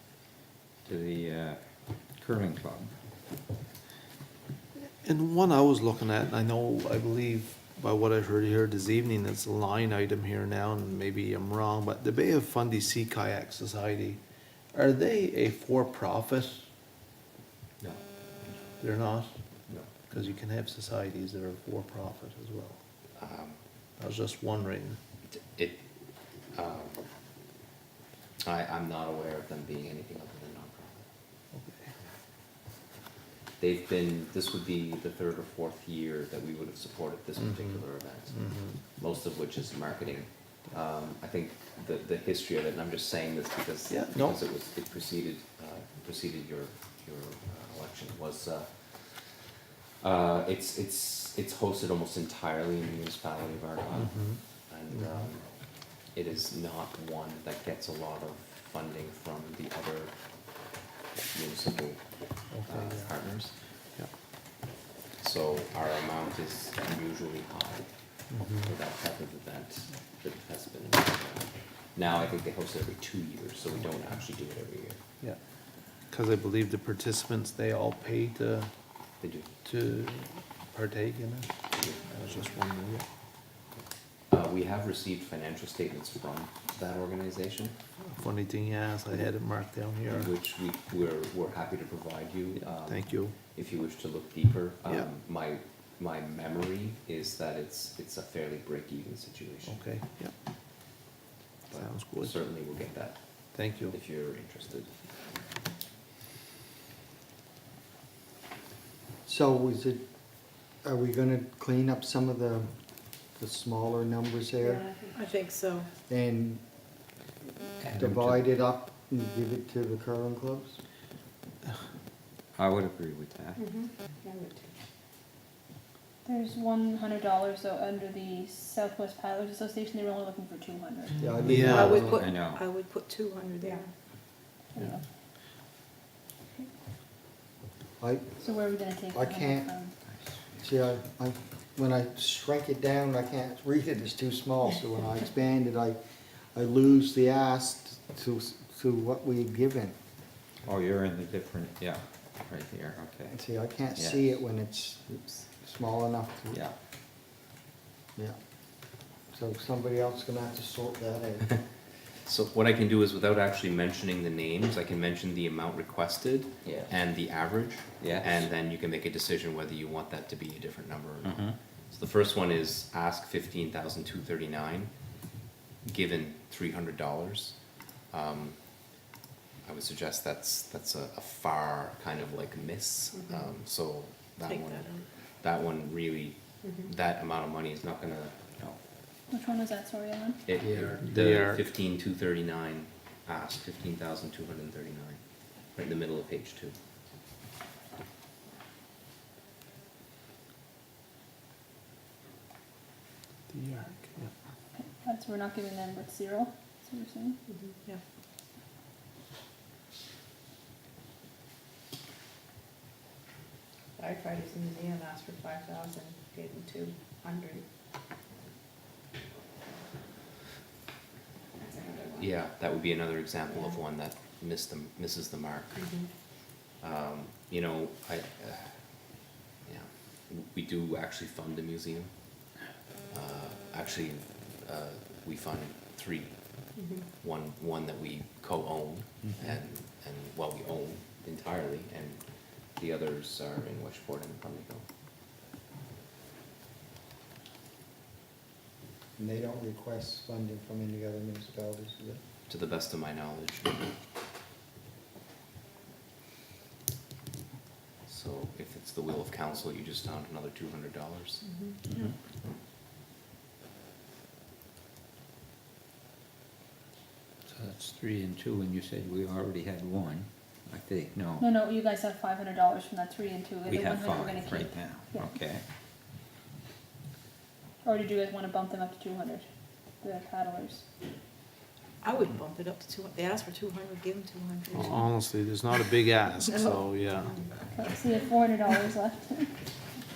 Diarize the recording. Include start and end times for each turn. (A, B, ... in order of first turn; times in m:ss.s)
0:00.8-0:02.9 A
0:05.0-0:14.2 B
0:14.7-0:16.6 B
0:17.8-0:18.6 C
0:18.8-0:19.3 B
0:20.1-0:22.8 B
0:23.2-0:23.6 C
0:24.0-0:25.0 B
0:25.3-0:25.8 C
0:26.5-0:27.0 C
0:28.4-0:31.0 C
0:31.5-0:31.9 B
0:33.6-0:55.4 C
0:37.4-0:38.8 B
0:43.9-0:44.4 B
0:53.9-0:55.3 B
0:56.1-1:00.1 C
1:01.3-1:03.5 C
1:02.5-1:03.2 B
1:05.2-1:07.9 C
1:08.3-1:08.7 B
1:08.5-1:15.0 C
1:16.1-1:18.7 B
1:19.2-1:19.5 C
1:19.6-1:23.0 B
1:24.3-1:27.8 C
1:28.0-1:30.3 B
1:30.1-1:39.8 C
1:32.6-1:33.4 B
1:39.6-1:40.3 B
1:41.7-1:43.2 C
1:41.7-1:42.4 B
1:43.5-1:44.0 B
1:43.8-1:44.9 C
1:49.2-1:50.0 D
1:50.8-1:52.7 D
1:53.4-1:54.8 D
1:55.1-1:55.9 E
1:56.1-1:56.6 D
1:57.8-1:58.5 A
1:57.8-2:00.8 D
2:02.6-2:03.6 A
2:06.2-2:11.3 F
2:11.2-2:12.2 D
2:11.4-2:11.9 B
2:11.7-2:13.8 E
2:12.2-2:12.6 A
2:14.7-2:15.0 F
2:18.0-2:18.4 D
2:18.4-2:19.9 F
2:19.1-2:19.7 D
2:20.6-2:26.0 D
2:26.5-2:30.0 D
2:30.6-2:33.4 A
2:33.3-2:36.6 D
2:33.9-2:34.4 A
2:39.3-2:41.6 D
2:42.2-2:54.9 C
2:46.6-2:46.9 A
2:48.0-2:48.5 A
2:51.2-2:51.6 A
2:55.8-2:57.6 C
2:58.1-2:58.6 C
2:59.6-3:08.3 C
3:04.4-3:05.0 E
3:09.3-3:10.4 F
3:10.4-3:15.2 C
3:11.0-3:11.7 B
3:15.7-3:16.8 C
3:23.5-3:24.3 B
3:24.7-3:27.4 F
3:34.0-3:37.5 G
3:42.2-3:45.8 C
3:46.8-3:48.7 C
3:49.6-3:52.1 C
3:53.1-4:02.2 C
4:02.7-4:04.8 C
4:09.2-4:12.2 D
4:12.5-4:13.9 C
4:18.0-4:21.4 C
4:27.5-4:31.5 A
4:31.4-4:35.4 F
4:33.6-4:35.6 A
4:37.8-4:39.4 F
4:40.0-4:40.8 F
4:42.0-4:45.0 E
4:44.7-4:47.3 B
4:46.5-4:46.8 E
4:47.7-4:49.5 F